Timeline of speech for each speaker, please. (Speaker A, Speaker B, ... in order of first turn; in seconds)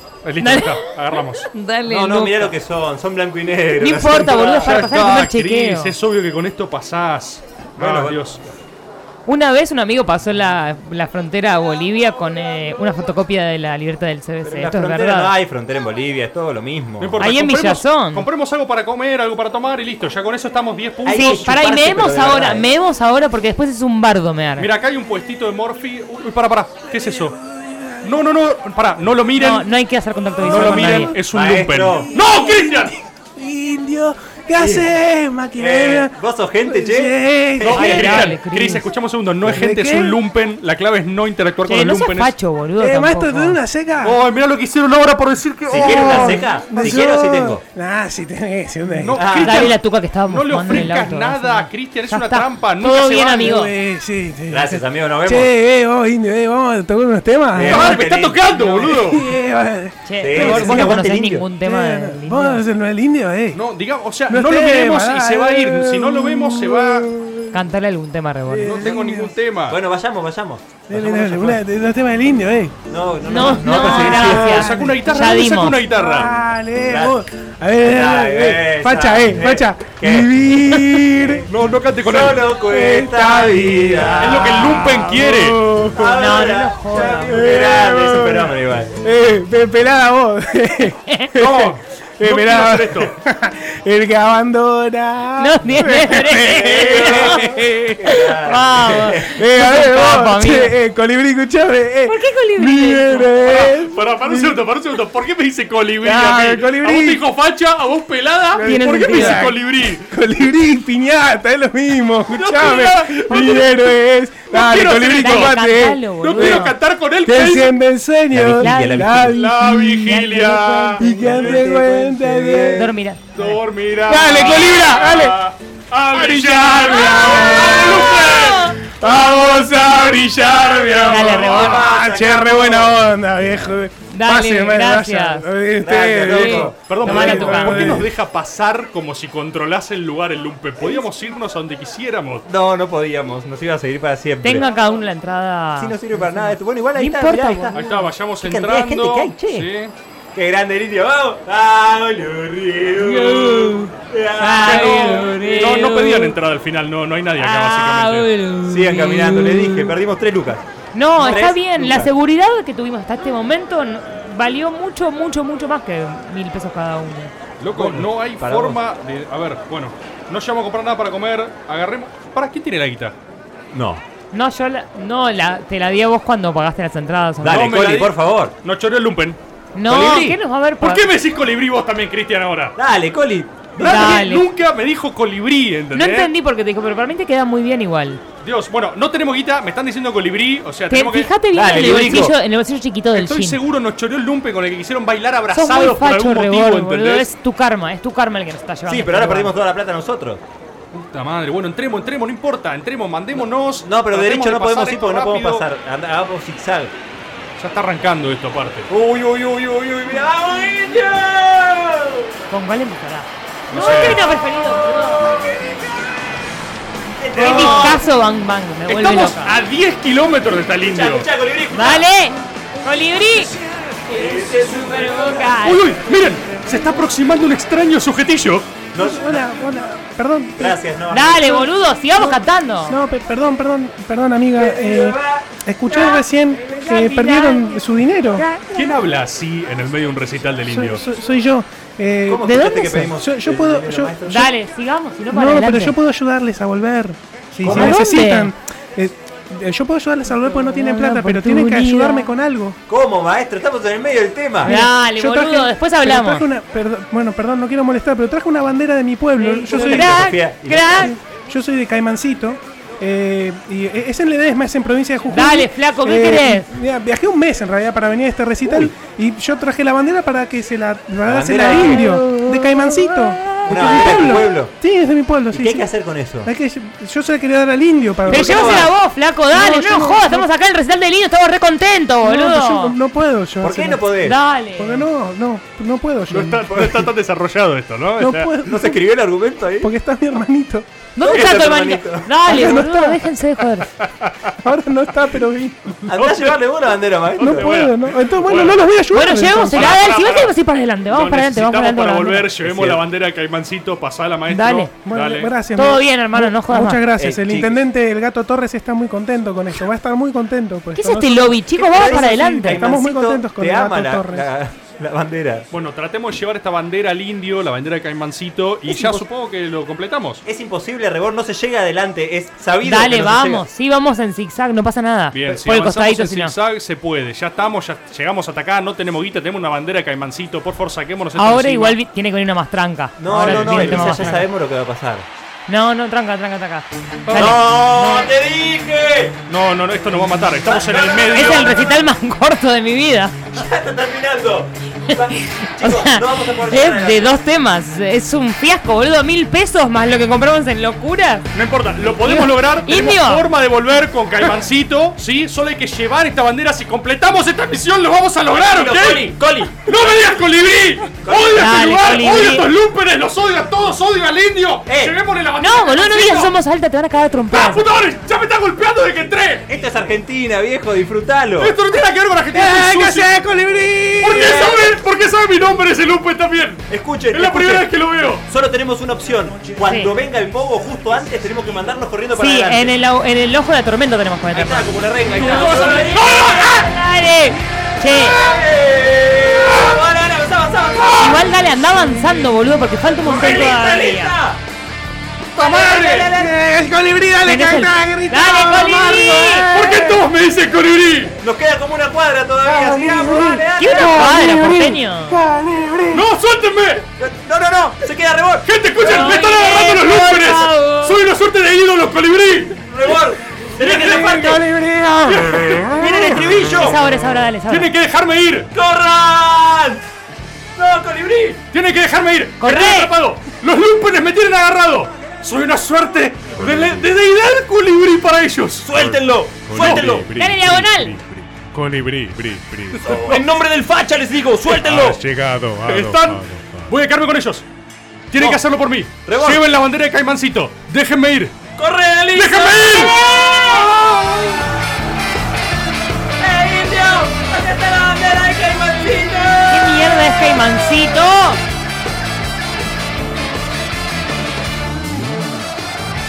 Speaker A: 0.2-1.5, 4.6-8.4, 17.0-21.5, 24.6-27.4, 28.0-29.7, 30.4-32.9, 37.6-42.3, 44.0-46.4, 48.9-53.6, 57.7-59.3, 63.5-67.1, 68.6-69.8, 73.9-76.3, 81.5-82.5, 84.2-85.6, 91.4-93.1, 103.5-110.0, 112.3-113.8, 114.5-115.6, 116.2-117.8, 119.2-121.7, 123.3-128.6, 136.9-142.4, 147.7-149.9, 154.6-158.3, 167.6-173.2, 177.4-182.8, 183.8-186.3, 188.4-192.3, 193.2-197.3, 200.9-205.7, 207.6-208.9, 213.7-214.2, 218.9-221.3, 225.6-228.7, 238.7-241.0, 286.3-288.5, 294.0-294.5, 297.4-298.9, 299.7-300.5, 301.1-305.5, 315.7-320.4, 325.3-332.0, 333.4-334.4, 337.3-337.6, 339.5-341.7, 351.5-366.5, 367.5-369.7, 371.6-373.3, 374.2-378.4, 385.4-386.9, 395.6-396.3, 399.7-401.3, 406.1-407.1, 408.7-412.8, 413.8-414.7, 415.2-416.5, 417.7-418.7, 421.7-428.9, 429.7-430.1, 433.1-433.5, 435.9-437.6, 438.3-441.5, 442.3-443.2
Speaker B: 0.4-0.8, 1.5-2.5, 3.8-6.0, 9.3-15.3, 17.2-18.3, 21.1-24.7, 29.4-31.1, 37.8-38.9, 41.7-43.6, 49.4-53.7, 60.0-62.6, 67.5-68.8, 73.3-75.8, 84.4-85.0, 86.1-87.5, 95.4-97.4, 98.4-100.7, 102.1-103.3, 108.7-109.5, 115.1-116.7, 118.6-119.1, 120.1-121.2, 122.7-123.6, 127.1-128.8, 131.1-131.8, 134.1-135.5, 136.2-137.9, 144.4-148.0, 153.2-153.9, 154.4-156.3, 157.4-159.9, 160.9-167.3, 174.3-177.7, 179.8-181.0, 183.8-184.4, 185.9-188.2, 190.9-193.6, 195.5-199.5, 212.5-215.2, 217.3-219.6, 221.7-223.5, 224.7-225.8, 231.1-233.0, 235.9-237.8, 238.4-238.7, 244.3-246.0, 247.7-248.5, 250.3-252.3, 254.6-256.5, 259.4-261.1, 265.3-266.7, 271.6-273.2, 278.3-283.0, 284.2-285.1, 291.2-293.9, 299.1-302.5, 304.5-304.9, 305.8-307.1, 311.0-312.9, 322.8-326.5, 331.4-334.5, 335.7-338.3, 341.3-343.4, 345.1-351.5, 352.2-353.5, 361.6-362.7, 365.6-367.8, 379.8-380.1, 382.4-388.4, 391.2-394.3, 397.4-399.7, 403.8-405.4, 409.0-411.2, 416.8-417.9, 422.6-423.1, 429.8-431.1, 449.7-451.6
Speaker C: 1.9-4.8, 7.8-8.2, 14.4-17.2, 21.1-22.7, 31.3-32.1, 34.6-34.9, 35.6-38.3, 45.7-47.6, 49.1-49.7, 54.5-55.5, 57.5-59.0, 60.2-61.5, 69.7-71.6, 72.9-74.6, 76.8-77.2, 77.8-81.5, 82.0-84.8, 85.9-88.9, 96.5-99.3, 118.3-119.4, 121.1-122.8, 129.0-133.1, 135.8-137.6, 142.5-144.7, 145.8-147.8, 148.4-149.7, 150.3-155.3, 158.7-160.6, 161.2-162.1, 167.8-168.8, 173.7-174.0, 177.4-178.5, 182.8-184.1, 191.5-192.3, 198.9-200.4, 203.8-206.9, 208.9-212.3, 213.8-216.4, 217.1-218.0, 220.8-222.1, 224.1-225.6, 228.9-229.4, 230.6-231.7, 234.6-236.2, 242.3-244.5, 247.6-248.1, 252.9-254.8, 259.6-261.1, 268.6-268.9, 271.2-272.2, 273.6-274.7, 275.5-276.5, 278.2-278.9, 283.6-284.4, 288.6-289.9, 291.2-292.3, 296.1-297.9, 302.6-303.0, 307.2-307.8, 311.8-315.7, 318.9-319.2, 320.4-323.6, 333.2-335.3, 337.4-339.4, 340.6-342.1, 343.5-347.4, 358.7-359.7, 361.2-362.0, 364.9-365.1, 369.7-371.7, 374.3-374.9, 376.9-377.9, 378.5-382.9, 384.5-386.9, 388.0-391.5, 393.1-394.6, 395.6-396.5, 401.4-404.5, 407.2-408.7, 412.9-414.7, 415.6-417.0, 418.7-420.0, 420.8-421.6, 428.8-430.3, 433.0-435.2, 439.3-439.6, 441.8-444.7, 446.4-450.1
Speaker D: 27.0-28.1, 30.4-31.1, 32.1-36.1, 36.6-37.9, 39.4-40.2, 42.8-44.2, 45.8-49.2, 53.4-57.9, 58.8-61.0, 61.6-63.6, 64.3-67.6, 68.5-69.3, 70.9-72.7, 73.8-81.5, 82.7-84.2, 85.1-86.1, 87.0-98.2, 99.4-104.6, 106.0-107.2, 108.5-116.7, 117.2-122.9, 124.1-125.4, 126.1-128.3, 129.0-138.1, 229.0-230.8, 232.9-238.4, 240.7-244.2, 245.3-252.8, 254.6-260.3, 260.9-275.9, 276.4-278.9, 279.5-280.5, 282.2-284.0, 284.8-287.0, 288.2-289.0, 289.8-290.9, 292.5-293.2, 294.6-295.9, 297.4-299.9, 305.0-314.5, 372.5-374.6, 396.3-400.2, 404.5-404.8, 405.6-406.1, 426.6-427.1, 428.9-433.1, 434.8-436.9